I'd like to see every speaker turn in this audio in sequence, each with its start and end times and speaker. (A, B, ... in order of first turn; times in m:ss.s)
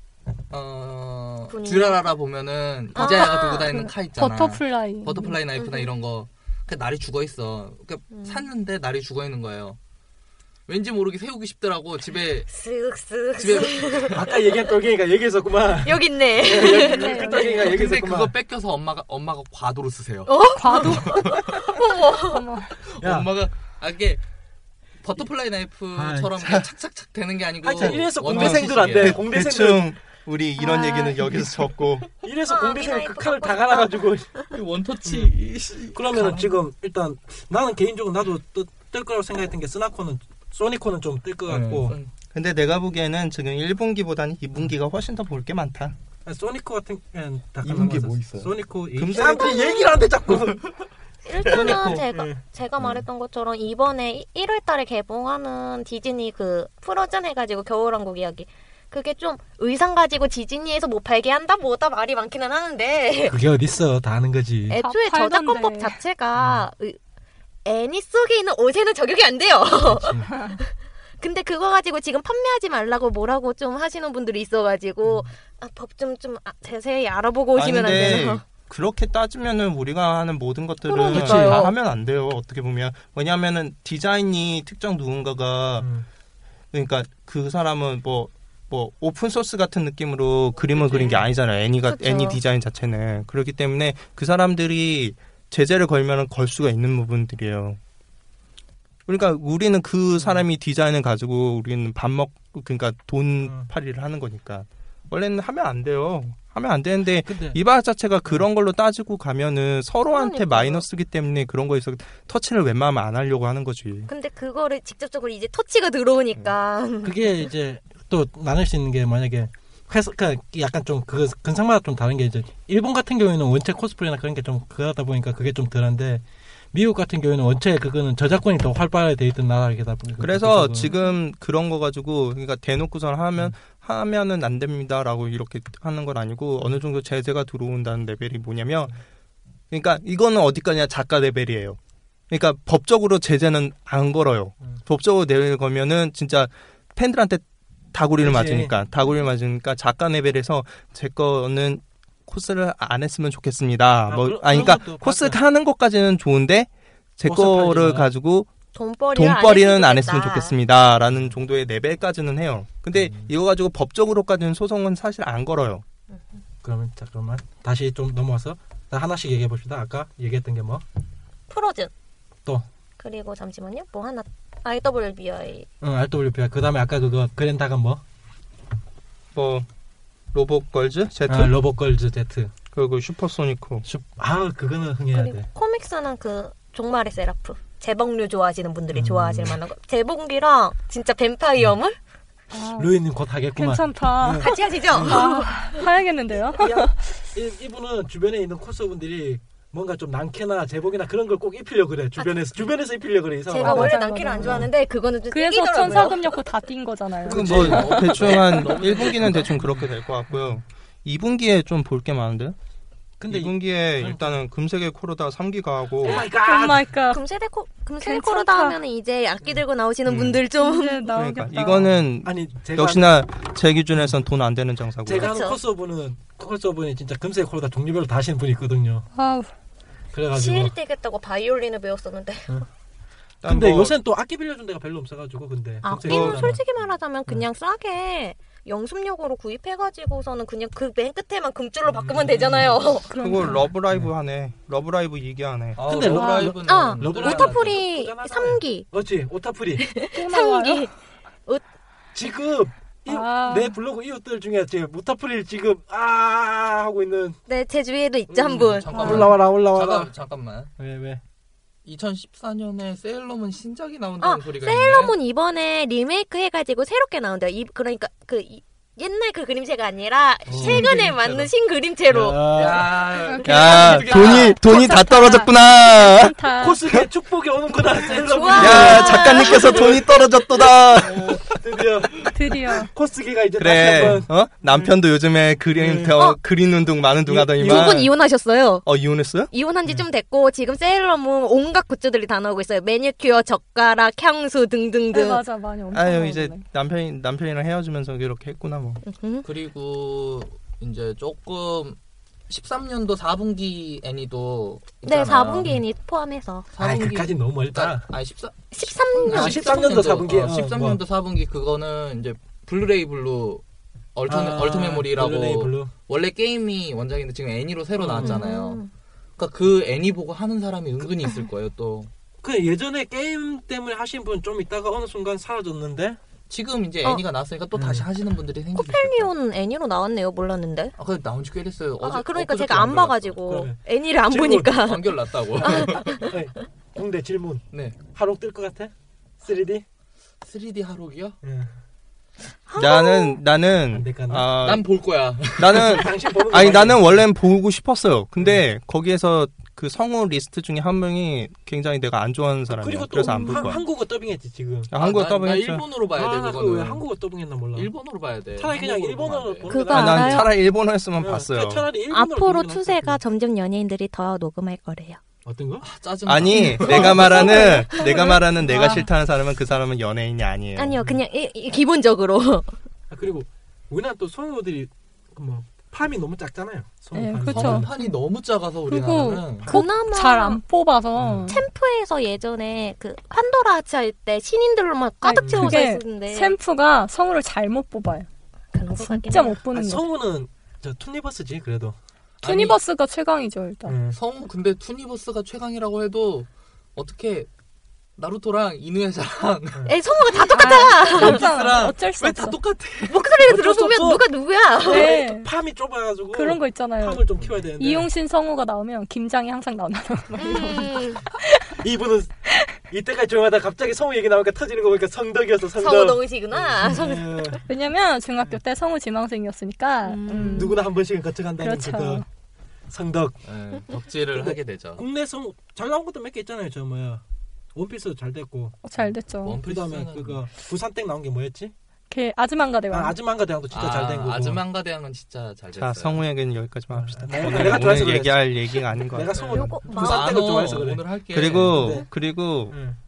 0:00.5-0:09.8 A
0:01.5-0:02.0 B
0:03.0-0:03.7 B
0:03.0-0:05.4 C
0:05.6-0:05.9 B
0:08.1-0:08.5 B
0:10.7-0:12.5 A
0:12.5-0:14.2 B
0:13.4-0:14.2 A
0:14.1-0:18.3 D
0:15.8-0:17.6 B
0:16.7-0:17.6 C
0:17.3-0:21.6 A
0:20.3-0:22.5 B
0:20.6-0:21.4 C
0:22.2-0:22.8 C
0:22.8-0:24.2 A
0:23.0-0:23.3 D
0:25.0-0:29.2 A
0:26.0-0:26.3 D
0:27.6-0:29.9 D
0:27.8-0:32.1 E
0:32.2-0:34.4 D
0:32.5-0:34.4 B
0:34.5-0:36.5 A
0:35.1-0:35.3 D
0:35.9-0:42.0 D
0:41.5-0:42.1 A
0:42.3-0:46.0 E
0:46.2-0:50.7 D
0:47.6-0:48.5 A
0:48.9-0:49.7 E
0:49.2-0:50.0 B
0:51.2-1:03.4 B
0:51.4-0:52.4 D
1:03.3-1:04.8 D
1:04.7-1:07.0 B
1:04.7-1:06.0 C
1:06.4-1:06.6 D
1:07.6-1:18.4 B
1:09.8-1:10.3 D
1:10.3-1:10.6 C
1:17.6-1:25.9 E
1:20.8-1:21.7 B
1:21.1-1:21.7 D
1:25.8-1:26.1 D
1:26.7-1:37.8 E
1:30.8-1:31.2 D
1:31.9-1:32.4 B
1:39.1-1:54.1 E
1:40.2-1:40.4 D
1:47.3-1:47.6 D
1:50.1-1:50.8 B
1:54.1-1:57.3 B
1:57.0-2:10.9 D
2:10.2-2:19.0 E
2:19.7-2:21.8 E
2:22.3-2:38.5 E
2:28.2-2:28.7 D
2:34.1-2:35.4 D
2:37.2-2:38.1 D
2:38.7-2:40.6 B
2:39.1-2:45.8 E
2:46.6-2:50.8 D
2:51.5-2:51.9 B
2:53.0-2:55.7 B
2:55.8-2:58.0 D
2:59.3-2:59.7 E
3:00.3-3:01.6 E
3:01.3-3:02.5 D
3:02.7-3:03.9 E
3:03.8-3:05.5 D
3:05.1-3:12.0 B
3:08.9-3:09.6 D
3:12.5-3:13.0 C
3:12.8-3:15.3 D
3:13.6-3:17.0 C
3:14.4-3:15.6 B
3:16.6-3:24.7 D
3:23.5-3:26.4 B
3:23.6-3:24.7 C
3:25.3-3:28.1 C
3:27.3-3:32.6 E
3:27.3-3:29.6 A
3:29.8-3:30.6 D
3:33.2-3:34.4 D
3:33.3-3:36.2 E
3:36.0-3:36.9 D
3:36.4-3:37.2 C
3:37.1-3:41.1 B
3:38.0-3:38.8 C
3:40.1-3:40.4 E
3:40.5-3:41.8 C
3:41.1-3:45.4 E
3:41.7-3:43.1 D
3:45.0-3:49.1 D
3:45.2-3:45.6 B
3:49.2-3:49.5 C
3:50.1-3:50.7 D
3:50.3-3:52.6 B
3:53.4-3:54.0 E
3:53.4-3:56.6 D
3:55.8-4:03.1 B
3:56.0-3:56.5 E
4:01.9-4:02.9 D
4:03.1-4:03.7 C
4:03.1-4:05.8 E
4:05.8-4:07.8 A
4:05.9-4:10.0 D
4:06.1-4:06.5 C
4:06.6-4:08.9 B
4:09.8-4:10.9 B
4:10.1-4:10.9 C
4:12.1-4:17.4 D
4:13.1-4:13.7 C
4:17.5-4:19.3 B
4:18.3-4:20.1 D
4:18.5-4:20.7 A
4:20.8-4:21.2 D
4:21.8-4:25.2 A
4:24.2-4:32.4 B
4:30.5-4:31.0 D
4:30.5-4:31.5 A
4:32.1-4:33.0 D
4:32.4-4:34.6 A
4:33.2-4:36.8 C
4:33.4-4:37.1 E
4:36.6-4:40.1 D
4:38.1-4:40.1 B
4:38.6-4:41.4 E
4:41.0-4:44.9 D
4:42.3-4:42.9 C
4:43.6-4:48.1 E
4:45.8-4:46.2 D
4:47.3-4:48.0 D
4:47.6-4:48.8 B
4:48.8-4:49.5 E
4:49.5-4:55.4 B
4:55.1-4:56.6 C
4:55.9-4:59.0 E
4:59.0-4:59.5 B
4:59.4-5:02.0 A
5:02.5-5:05.7 A
5:05.0-5:06.7 B
5:06.7-5:13.6 A
5:06.8-5:08.1 D
5:08.7-5:09.8 B
5:09.3-5:11.0 D
5:14.2-5:18.8 A
5:14.3-5:15.9 D
5:18.0-5:18.4 D
5:18.2-5:18.9 B
5:19.4-5:22.1 A
5:22.4-5:26.2 D
5:26.5-5:29.3 A
5:27.8-5:28.1 D
5:28.8-5:30.9 B
5:31.0-5:33.4 A
5:32.0-5:36.3 B
5:33.5-5:34.8 D
5:34.7-5:36.3 A
5:35.6-5:39.8 D
5:37.7-5:38.0 A
5:40.4-5:41.4 A
5:41.4-5:41.7 D
5:42.7-5:43.4 B
5:42.8-5:44.9 E
5:43.9-5:44.6 D
5:44.6-5:46.0 A
5:45.5-5:53.8 E
5:45.7-5:47.3 D
5:52.7-5:54.9 D
5:53.2-5:53.8 C
5:54.9-5:55.8 E
5:55.0-5:57.0 A
5:56.2-5:57.9 D
5:57.7-6:00.4 A
5:58.6-6:00.5 D
5:59.7-6:00.5 B
5:59.9-6:01.9 E
6:01.2-6:03.2 D
6:02.1-6:05.2 B
6:05.4-6:05.9 D
6:05.8-6:07.5 A
6:06.3-6:11.0 E
6:06.6-6:08.5 B
6:07.0-6:07.4 D
6:10.8-6:12.8 B
6:13.1-6:17.9 D
6:17.2-6:17.9 C
6:17.5-6:19.7 A
6:18.9-6:21.6 C
6:19.7-6:20.6 B
6:21.2-6:21.6 D
6:21.5-6:26.6 B
6:25.2-6:28.3 C
6:25.4-6:25.8 D
6:28.7-6:29.6 B
6:29.1-6:30.0 C
6:29.7-6:32.0 D
6:32.4-6:32.8 A
6:32.4-6:34.0 C
6:33.8-6:34.2 D
6:34.1-6:37.5 A
6:38.2-6:39.8 A
6:39.9-6:41.4 B
6:40.5-6:42.6 C
6:41.1-6:43.2 A
6:41.1-6:41.8 D
6:43.1-6:45.2 B
6:43.4-6:44.3 D
6:44.8-6:45.5 C
6:44.9-6:48.1 D
6:46.3-6:47.2 C
6:47.4-6:47.7 A
6:47.8-6:51.1 C
6:50.4-6:51.2 B
6:51.8-6:52.4 D
6:52.9-6:57.6 D
6:55.8-6:57.6 B
6:57.7-7:00.8 C
7:00.0-7:00.8 B
7:00.4-7:02.2 D
7:01.6-7:02.2 C
7:02.9-7:03.4 D
7:03.4-7:05.0 A
7:04.4-7:07.2 D
7:07.8-7:09.1 D
7:08.8-7:09.6 C
7:09.4-7:10.4 A
7:09.6-7:11.7 D
7:12.1-7:13.2 C
7:12.9-7:14.6 D
7:13.7-7:16.2 A
7:15.8-7:19.6 E
7:16.9-7:21.0 D
7:17.5-7:18.0 A
7:19.4-7:20.3 B
7:19.8-7:22.0 A
7:21.3-7:22.8 E
7:21.7-7:22.1 D
7:22.7-7:23.0 D